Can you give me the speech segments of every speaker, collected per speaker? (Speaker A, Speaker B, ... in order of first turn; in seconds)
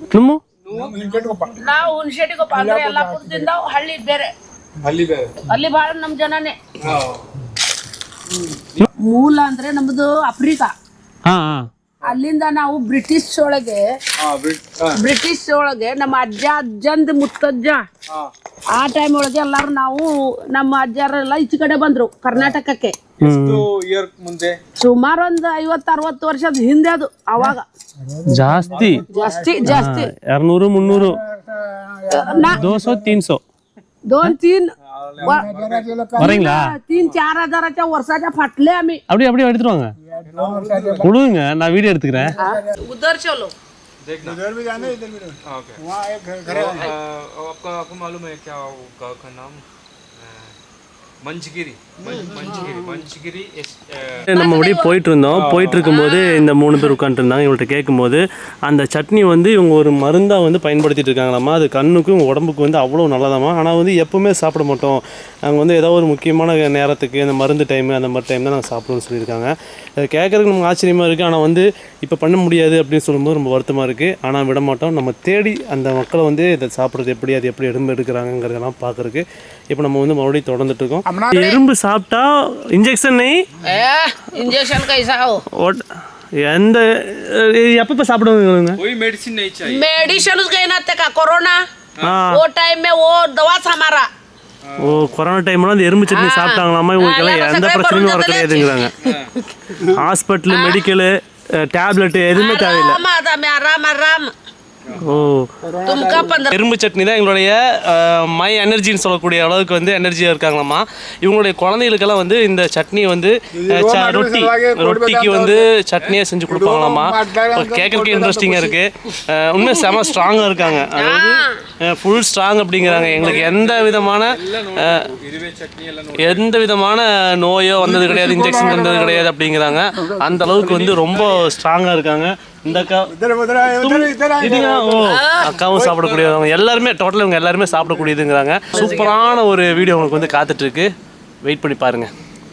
Speaker A: 0.1-0.4, 11.3-11.7, 23.2-23.7, 28.3-29.0, 29.6-31.2, 32.5-33.4, 36.2-36.7, 39.1-39.9, 41.0-42.4, 54.3-83.4, 85.6-85.8, 86.4-88.8, 92.0-92.4, 94.8-98.9, 99.9-103.0, 105.0-105.5, 106.5-125.1, 126.2-133.1, 133.6-140.9, 141.4-142.1
Speaker B: 0.7-1.0, 4.8-5.3, 6.8-7.2, 14.2-15.0, 23.2-24.6, 34.9-35.9, 36.9-37.2, 40.3-41.0, 44.0-44.4, 45.5-45.8, 46.5-49.6, 50.2-50.5, 51.2-54.3, 55.3-55.9, 88.8-89.9, 94.7-95.1, 99.0-99.3, 104.9-105.2, 122.8-126.6, 130.5-131.5, 135.9-136.3
Speaker C: 0.7-1.8, 2.5-3.5, 27.4-29.9, 30.8-33.2, 35.2-36.4, 40.1-41.1, 42.3-42.7, 44.2-46.9, 52.0-53.0, 81.1-81.5, 105.6-106.5, 113.5-115.7, 116.5-118.8, 127.8-129.3, 130.1-130.4, 133.1-135.1
Speaker D: 1.6-4.3, 5.5-6.6, 8.9-10.7, 12.0-13.9, 14.9-17.8, 18.7-23.0, 24.8-27.7, 28.8-30.1, 32.1-32.6, 34.1-35.5, 36.2-39.0, 42.4-43.5, 54.3-55.0, 55.8-56.4, 83.6-85.4, 89.6-91.6, 92.3-94.1, 96.1-99.2, 100.5-100.8, 102.3-104.3, 105.8-106.5, 120.9-121.6, 135.1-135.5, 138.8-139.1